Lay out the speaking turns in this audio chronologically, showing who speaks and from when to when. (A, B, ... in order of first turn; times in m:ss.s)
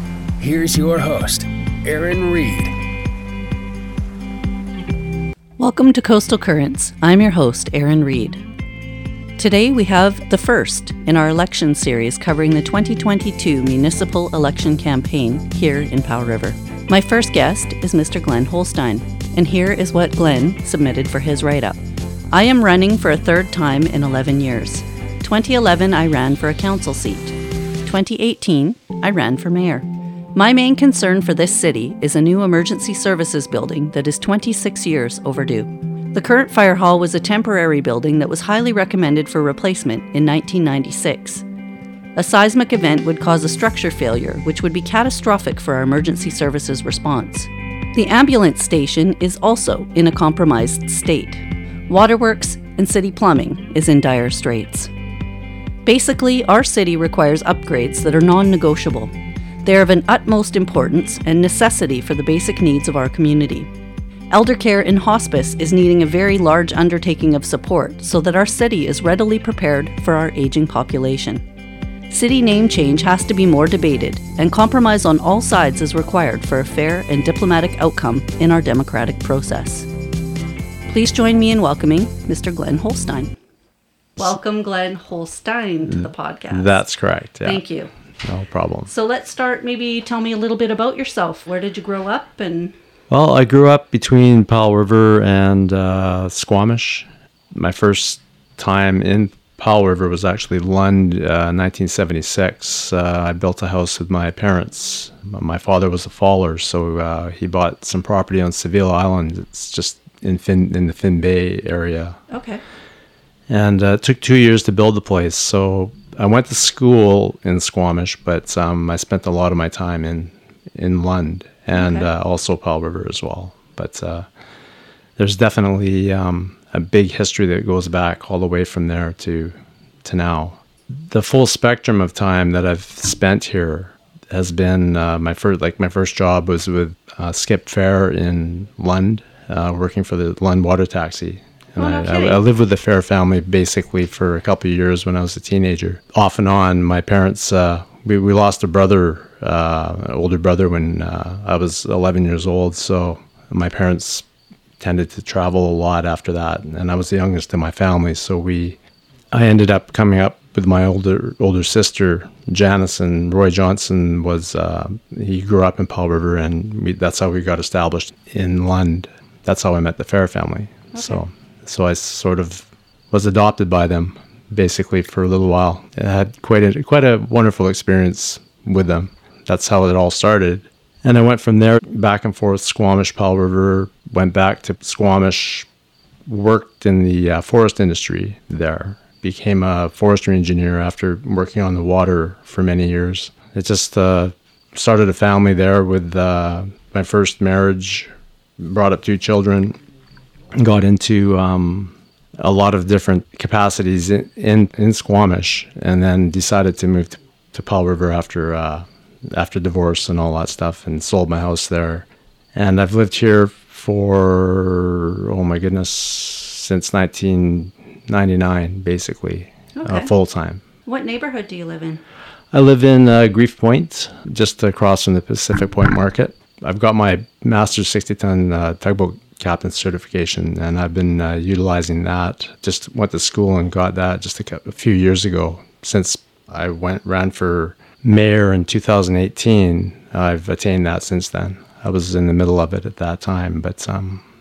0:00.4-0:02.7 A
0:05.6-0:08.4 B
0:09.4-0:21.8 B
0:22.3-0:41.4 B
0:42.2-0:54.9 B
0:55.8-0:59.1 B
0:59.6-1:03.7 B
1:04.3-1:11.4 B
1:12.1-1:19.9 B
1:20.9-1:23.3 B
1:24.2-1:26.8 B
1:25.8-1:27.6 C
1:27.4-1:27.9 B
1:28.2-1:28.9 C
1:28.9-1:32.7 B
1:33.1-1:52.2 C
1:52.3-1:52.6 B
1:53.5-2:04.3 C
2:01.8-2:02.1 B
2:05.2-2:34.2 C
2:21.8-2:22.4 B
2:34.8-2:38.8 C
2:39.3-3:05.7 C
2:50.9-2:51.2 B
3:06.2-3:19.8 C
3:20.6-3:40.6 C
3:39.8-3:40.1 B
3:40.8-3:42.0 B
3:42.5-4:04.2 C